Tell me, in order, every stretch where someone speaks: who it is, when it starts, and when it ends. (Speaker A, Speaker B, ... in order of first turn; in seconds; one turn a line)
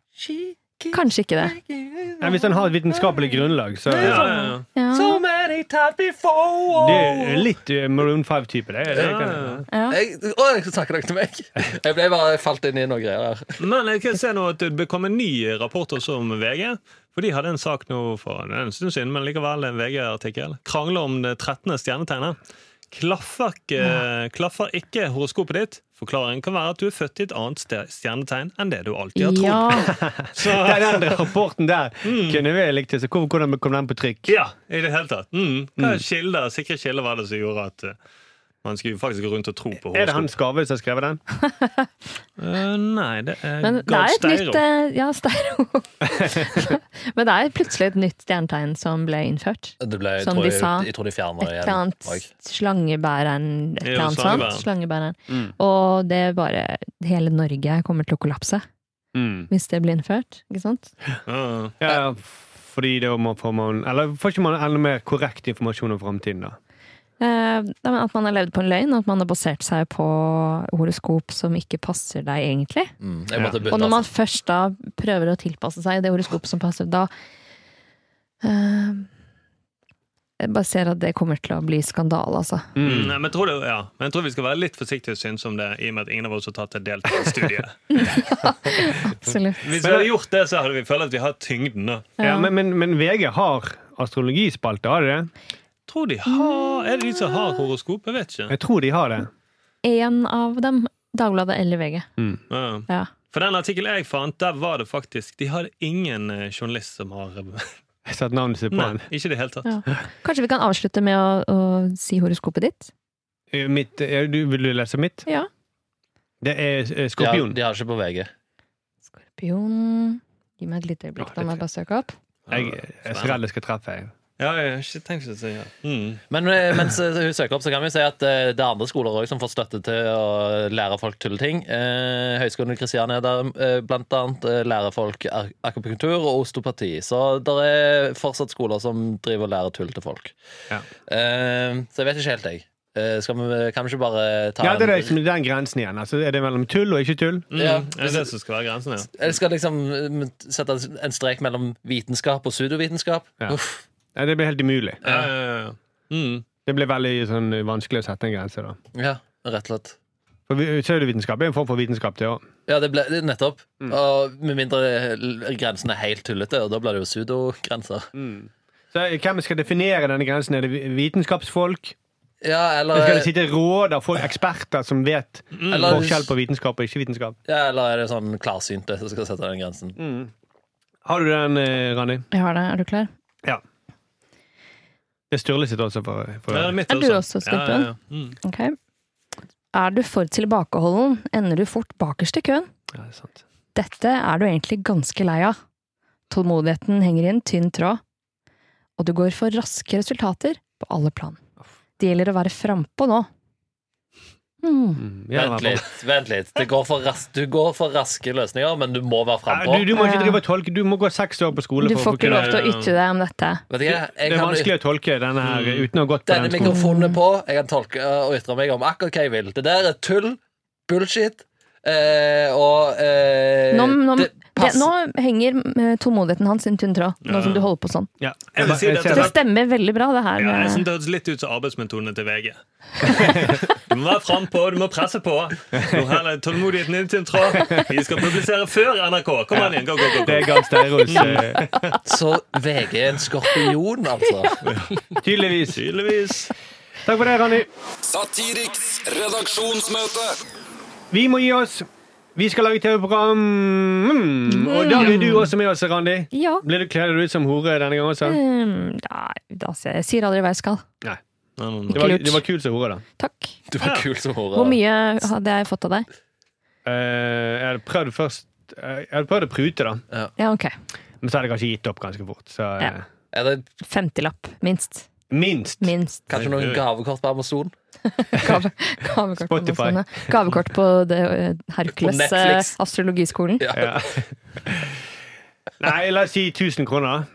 Speaker A: 0.2-3.3
Speaker B: 0.9-1.6
Speaker C: 2.2-4.5
Speaker D: 3.9-4.6
Speaker A: 4.1-4.4
Speaker B: 4.2-5.2
Speaker A: 4.9-7.5
Speaker C: 6.8-9.7
Speaker D: 8.9-9.6
Speaker B: 9.7-10.0
Speaker A: 9.9-13.6
Speaker D: 13.6-22.4
Speaker D: 22.9-31.3
Speaker B: 29.1-29.9
Speaker C: 29.9-34.4
Speaker D: 32.0-32.4
Speaker D: 34.3-38.0
Speaker C: 35.8-36.0
Speaker D: 38.6-40.3
Speaker C: 39.8-41.2
Speaker B: 41.6-41.9
Speaker D: 42.4-44.6
Speaker B: 43.6-58.6
Speaker A: 49.8-52.3
Speaker D: 53.8-54.6
Speaker C: 59.1-59.5
Speaker B: 59.5-60.9
Speaker D: 61.3-61.8
Speaker C: 61.8-66.6
Speaker B: 67.2-72.9
Speaker A: 73.0-74.1
Speaker C: 73.3-73.6
Speaker B: 73.7-77.1
Speaker B: 78.4-79.1
Speaker B: 80.4-82.7
Speaker C: 82.8-83.2
Speaker D: 82.8-88.0
Speaker B: 87.9-89.6
Speaker D: 89.6-92.1
Speaker C: 89.8-90.1
Speaker B: 92.2-92.5
Speaker C: 92.2-95.3
Speaker D: 95.9-98.5
Speaker B: 96.4-96.7
Speaker C: 98.5-99.3
Speaker B: 99.8-102.1
Speaker D: 102.5-107.7
Speaker C: 108.1-109.0
Speaker D: 108.7-109.7
Speaker B: 109.6-112.9
Speaker C: 113.5-115.3
Speaker C: 116.4-117.5
Speaker A: 117.2-118.3
Speaker B: 119.2-122.1
Speaker C: 121.2-121.6
Speaker D: 122.5-123.4
Speaker C: 122.5-124.1
Speaker D: 124.4-126.2
Speaker A: 126.3-140.3
Speaker A: 141.1-145.1
Speaker C: 144.6-147.4
Speaker D: 147.5-149.1
Speaker A: 147.5-148.3
Speaker A: 149.1-153.8
Speaker C: 154.1-155.0
Speaker A: 155.0-155.3
Speaker D: 155.0-156.4
Speaker C: 156.7-158.8
Speaker A: 158.9-159.9
Speaker C: 160.5-162.4
Speaker A: 162.7-168.1
Speaker C: 168.1-171.9
Speaker A: 172.4-173.3
Speaker C: 172.9-177.3
Speaker D: 175.5-176.1
Speaker A: 175.7-176.3
Speaker A: 177.4-180.0
Speaker C: 180.0-180.3
Speaker C: 181.0-182.2
Speaker B: 182.3-183.1
Speaker C: 185.3-186.8
Speaker D: 186.5-188.4
Speaker B: 186.9-188.7
Speaker B: 189.7-192.7
Speaker C: 192.9-193.4
Speaker B: 193.7-195.6
Speaker B: 196.3-198.0
Speaker B: 199.0-201.4
Speaker B: 202.0-203.3
Speaker B: 204.6-205.0
Speaker C: 205.0-205.8
Speaker A: 205.3-209.9
Speaker C: 209.5-212.6
Speaker B: 209.9-210.4
Speaker B: 211.8-213.6
Speaker D: 212.2-212.9
Speaker A: 213.7-214.7
Speaker C: 213.9-216.8
Speaker D: 215.4-215.9
Speaker A: 216.2-224.9
Speaker B: 216.6-217.2
Speaker B: 223.7-228.1
Speaker D: 227.2-227.7
Speaker C: 228.2-229.3
Speaker D: 228.5-229.4
Speaker B: 229.1-230.8
Speaker D: 230.4-241.5
Speaker C: 233.1-233.6
Speaker C: 235.7-236.0
Speaker C: 237.6-237.9
Speaker C: 239.5-241.7
Speaker A: 242.1-244.5
Speaker D: 244.6-244.9
Speaker C: 245.2-245.8
Speaker D: 245.7-246.5
Speaker C: 247.0-247.7
Speaker E: 248.0-250.4
Speaker C: 251.1-258.4
Speaker B: 254.5-255.5
Speaker B: 256.3-256.6
Speaker B: 258.2-260.8
Speaker D: 261.6-262.0
Speaker B: 261.9-262.4
Speaker C: 261.9-263.0
Speaker B: 263.2-263.6
Speaker A: 263.7-264.8
Speaker D: 263.8-264.1
Speaker B: 264.5-266.1
Speaker C: 266.8-270.0
Speaker B: 270.4-270.7
Speaker C: 271.2-273.0
Speaker A: 273.3-273.6
Speaker B: 273.8-275.1
Speaker C: 275.3-275.9
Speaker B: 275.8-276.2
Speaker A: 276.3-277.7
Speaker D: 276.3-276.8
Speaker B: 278.2-283.6
Speaker C: 279.4-280.3
Speaker A: 281.9-282.7
Speaker A: 283.6-284.0
Speaker C: 283.7-285.0
Speaker C: 285.8-287.3